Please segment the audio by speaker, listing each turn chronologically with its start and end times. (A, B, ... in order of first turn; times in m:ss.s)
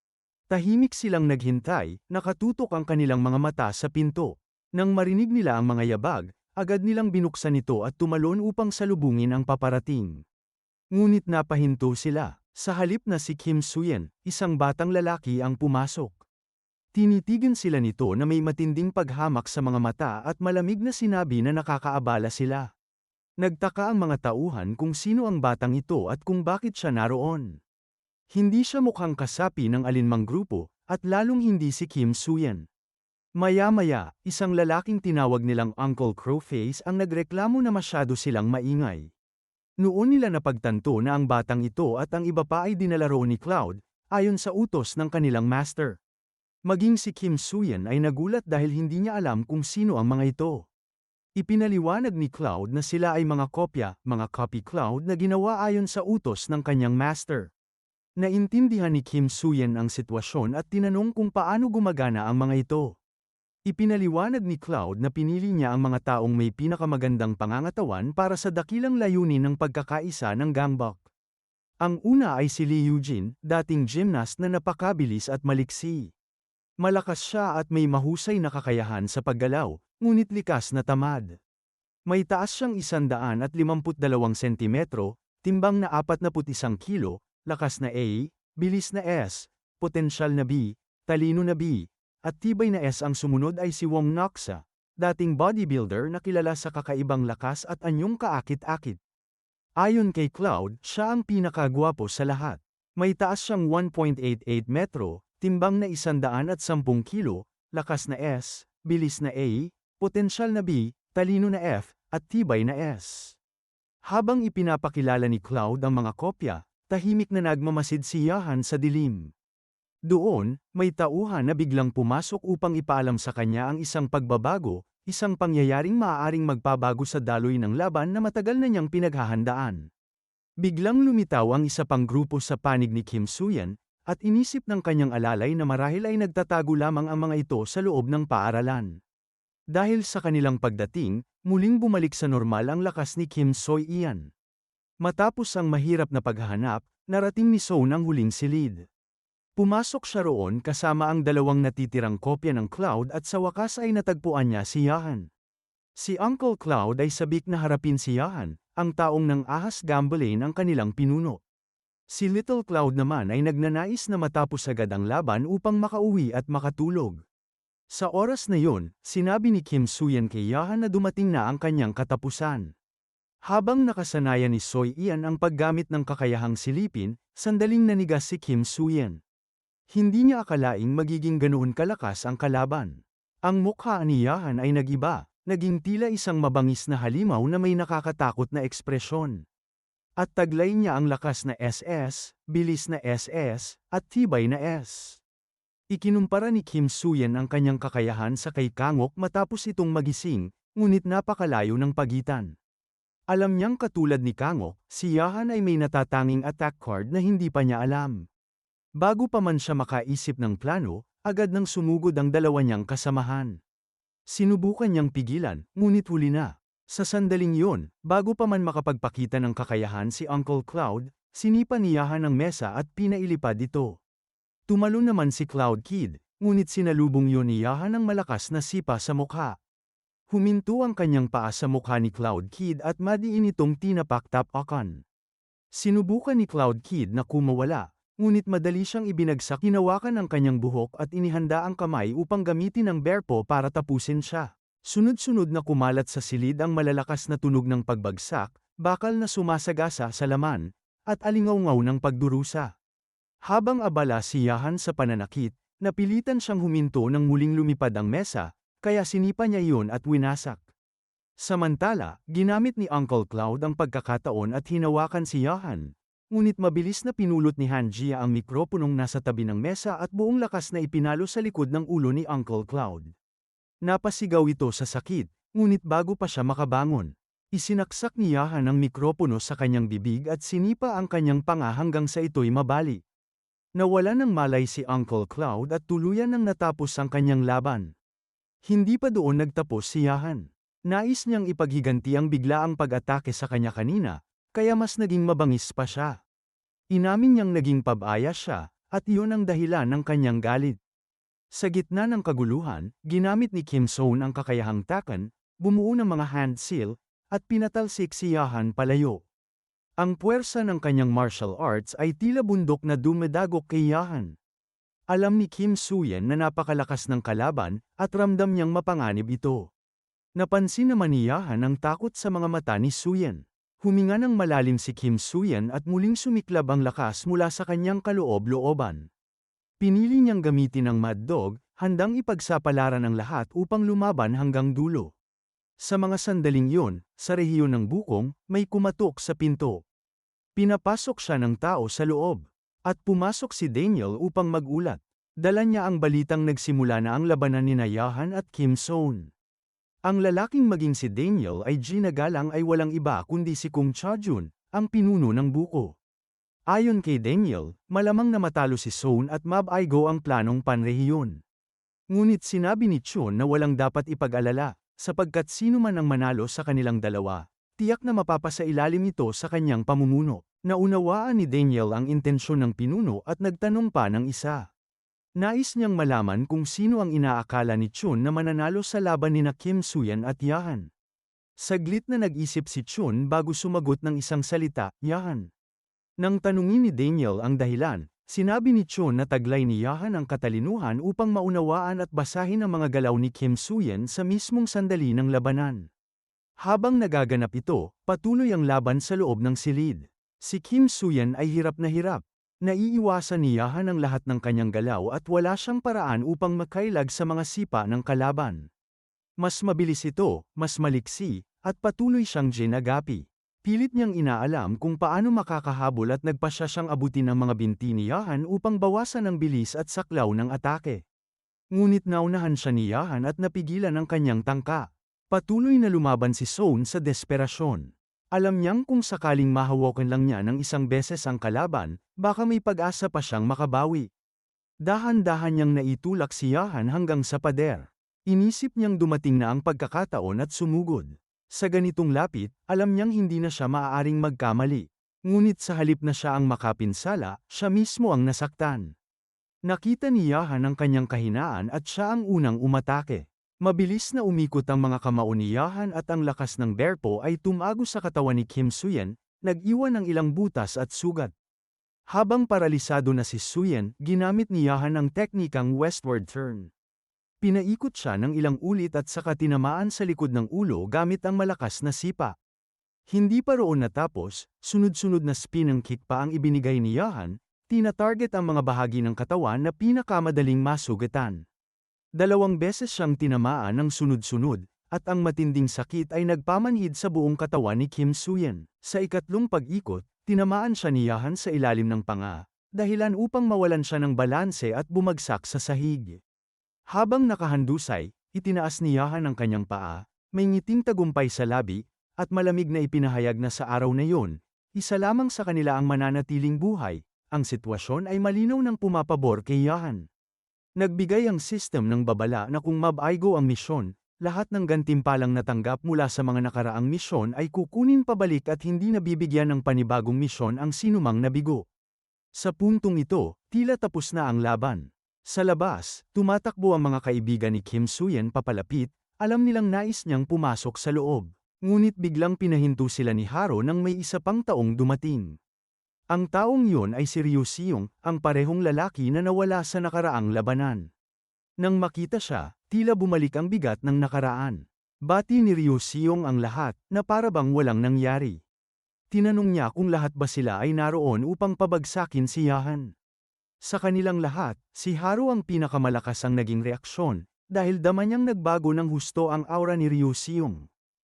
0:00.5-0:10.2 A
0:10.9-0:16.2 A
0:16.9-0:22.7 A
0:23.4-0:27.6 A
0:28.3-0:32.6 A
0:33.4-0:39.1 A
0:39.8-0:46.0 A
0:46.6-0:50.7 A
0:51.4-0:57.5 A
0:58.2-1:03.0 A
1:03.7-1:11.0 A
1:11.8-1:16.1 A
1:16.8-1:21.4 A
1:22.1-1:39.0 A
1:39.8-1:53.4 A
1:54.0-1:59.3 A
2:00.1-2:09.9 A
2:10.6-2:19.0 A
2:19.7-2:24.3 A
2:25.0-2:28.8 A
2:29.6-2:35.3 A
2:36.0-2:41.4 A
2:42.1-2:47.2 A
2:47.9-2:52.7 A
2:53.4-2:59.2 A
2:59.9-3:09.4 A
3:10.2-3:15.2 A
3:15.9-3:22.5 A
3:23.3-3:28.3 A
3:29.0-3:33.6 A
3:34.3-3:44.0 A
3:44.7-3:49.6 A
3:50.3-3:55.0 A
3:55.7-4:12.7 A
4:13.4-4:20.6 A
4:21.4-4:33.1 A
4:33.8-4:43.0 A
4:43.8-4:47.9 A
4:48.6-4:56.2 A
4:56.9-5:00.8 A
5:01.5-5:09.2 A
5:10.0-5:14.4 A
5:15.1-5:19.7 A
5:20.4-5:29.1 A
5:29.8-5:35.1 A
5:35.8-5:39.8 A
5:40.6-5:49.3 A
5:50.0-5:56.0 A
5:56.7-6:01.4 A
6:02.1-6:14.6 A
6:15.4-6:20.9 A
6:21.6-6:25.5 A
6:26.2-6:35.9 A
6:36.6-6:48.7 A
6:49.4-7:01.0 A
7:01.7-7:14.1 A
7:14.8-7:28.9 A
7:29.6-7:41.3 A
7:42.1-7:46.7 A
7:47.4-7:52.3 A
7:53.1-8:01.4 A
8:02.2-8:16.2 A
8:16.9-8:30.0 A
8:30.8-8:41.6 A
8:42.3-8:55.4 A
8:56.1-9:00.9 A
9:01.6-9:08.4 A
9:09.1-9:12.9 A
9:13.6-9:20.6 A